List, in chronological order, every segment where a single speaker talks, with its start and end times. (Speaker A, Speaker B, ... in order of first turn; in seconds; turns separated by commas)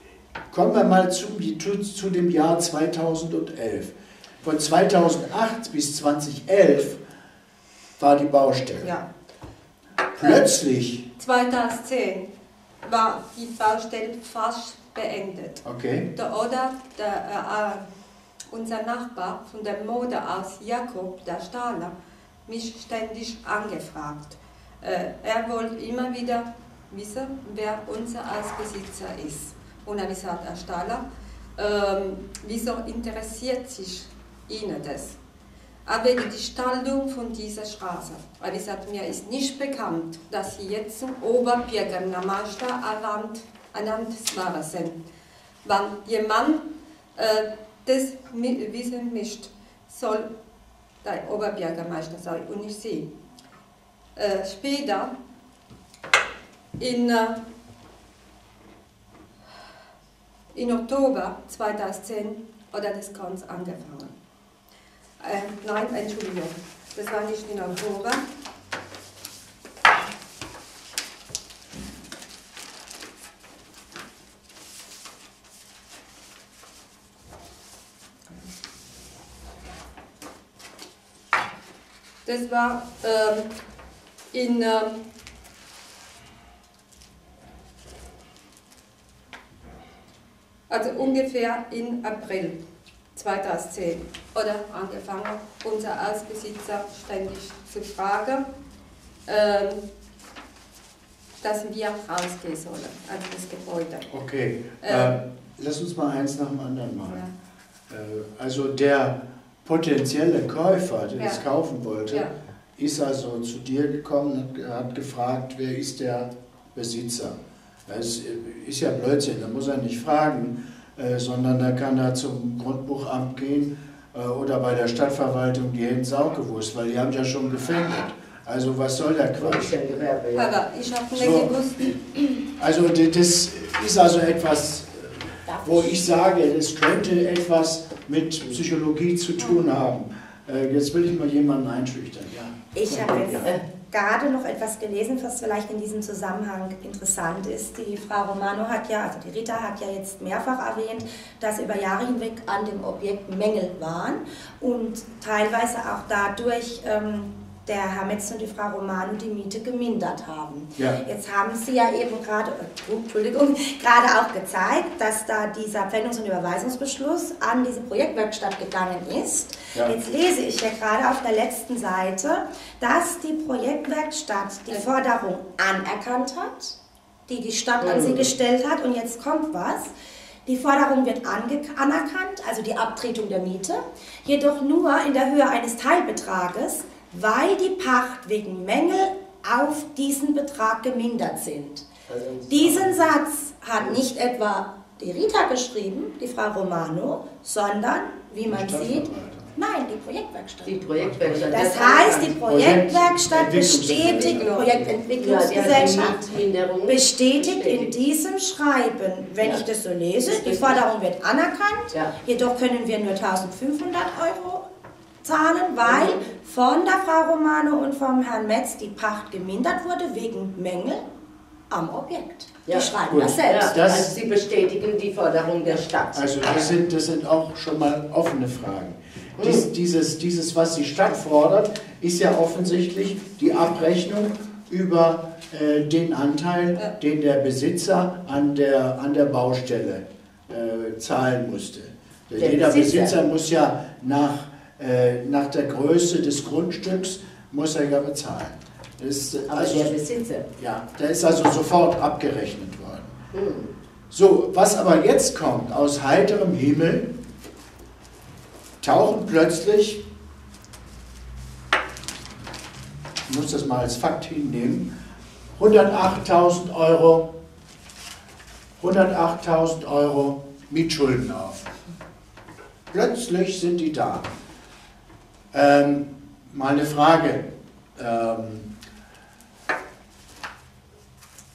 Speaker A: 0.5-7.0, Speaker A: 8.0-8.9, Speaker B: 8.8-9.1, Speaker A: 10.2-11.1, Speaker B: 10.2-10.5, Speaker B: 11.2-12.3, Speaker B: 12.8-17.8, Speaker A: 15.6-16.1, Speaker B: 18.5-21.9, Speaker B: 22.5-31.0, Speaker B: 31.6-35.2, Speaker B: 35.9-45.0, Speaker B: 45.6-46.6, Speaker B: 47.1-50.3, Speaker B: 51.0-53.1, Speaker B: 54.2-55.1, Speaker B: 56.8-57.4, Speaker B: 60.5-64.1, Speaker B: 65.2-68.2, Speaker B: 82.3-83.5, Speaker B: 84.3-85.0, Speaker B: 90.7-92.6, Speaker B: 93.2-98.5, Speaker B: 99.3-99.8, Speaker B: 101.4-104.1, Speaker A: 104.1-107.2, Speaker B: 104.8-105.1, Speaker A: 107.9-129.7, Speaker B: 112.1-112.3, Speaker C: 129.4-130.6, Speaker B: 130.4-132.0, Speaker A: 131.1-132.0, Speaker A: 132.6-143.5, Speaker D: 135.5-135.9, Speaker D: 142.7-176.8, Speaker D: 177.3-179.9, Speaker C: 177.8-178.3, Speaker D: 180.4-191.9, Speaker C: 192.1-193.0, Speaker D: 192.5-206.2, Speaker C: 193.8-194.1, Speaker A: 198.5-199.5, Speaker C: 200.7-202.4, Speaker A: 202.4-204.9, Speaker B: 204.0-204.8, Speaker C: 205.2-207.9, Speaker D: 206.9-214.7, Speaker C: 210.2-210.8, Speaker D: 215.2-221.0, Speaker C: 215.8-216.2, Speaker D: 221.7-223.8, Speaker C: 222.7-226.8, Speaker A: 223.1-224.1, Speaker A: 226.2-250.0, Speaker C: 229.4-229.7, Speaker C: 242.4-243.2, Speaker C: 249.5-250.5, Speaker A: 250.6-253.1, Speaker C: 253.3-253.7, Speaker A: 254.1-257.2, Speaker A: 258.8-260.0, Speaker A: 263.3-264.9, Speaker A: 265.6-267.3, Speaker A: 268.8-271.7, Speaker A: 272.9-274.3, Speaker A: 275.5-278.7